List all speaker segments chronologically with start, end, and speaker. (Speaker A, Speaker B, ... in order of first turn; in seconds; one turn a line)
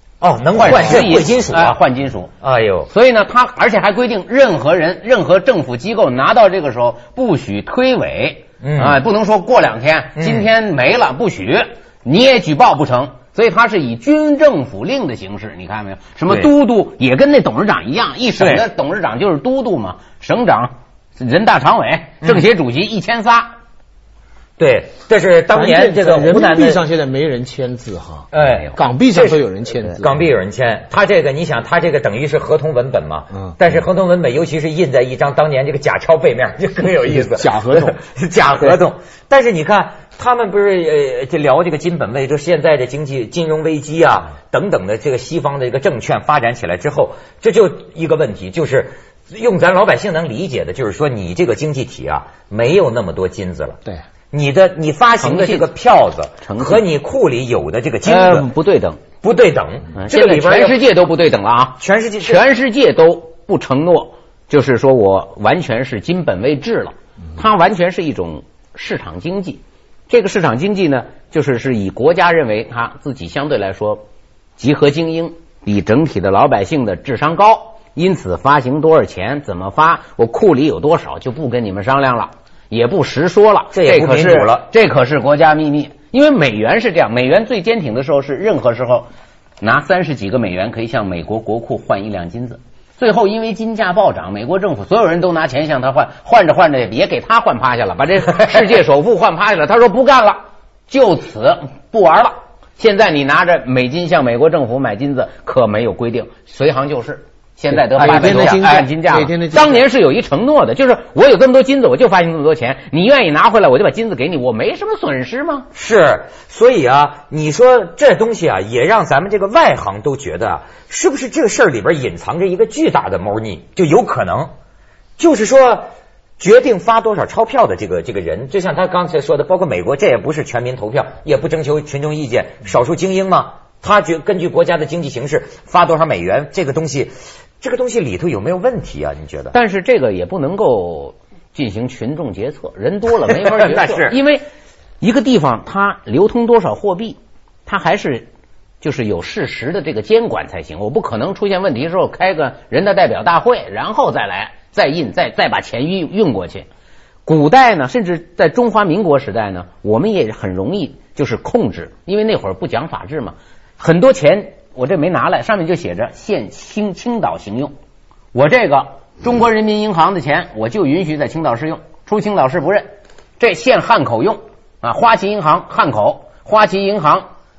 Speaker A: 0.2-1.8
Speaker B: 0.6-2.3
Speaker A: 2.4-2.9
Speaker B: 2.9-23.6
Speaker A: 8.6-9.0
Speaker A: 10.2-10.5
Speaker A: 18.4-18.6
Speaker A: 24.6-26.8
Speaker C: 25.5-30.2
Speaker A: 28.3-53.8
Speaker C: 37.1-38.0
Speaker A: 54.3-58.5
Speaker B: 55.2-55.7
Speaker B: 56.4-56.8
Speaker B: 58.0-59.0
Speaker A: 59.2-60.9
Speaker B: 60.0-74.0
Speaker A: 61.8-62.5
Speaker B: 74.6-89.1
Speaker A: 83.7-84.7
Speaker B: 89.6-115.7
Speaker A: 108.0-108.7
Speaker C: 108.0-109.9
Speaker A: 115.8-124.5
Speaker A: 125.2-125.9
Speaker A: 126.4-139.6
Speaker B: 139.5-144.4
Speaker A: 143.3-144.2
Speaker B: 145.0-148.3
Speaker B: 148.8-156.7
Speaker B: 157.3-167.7
Speaker B: 168.3-177.3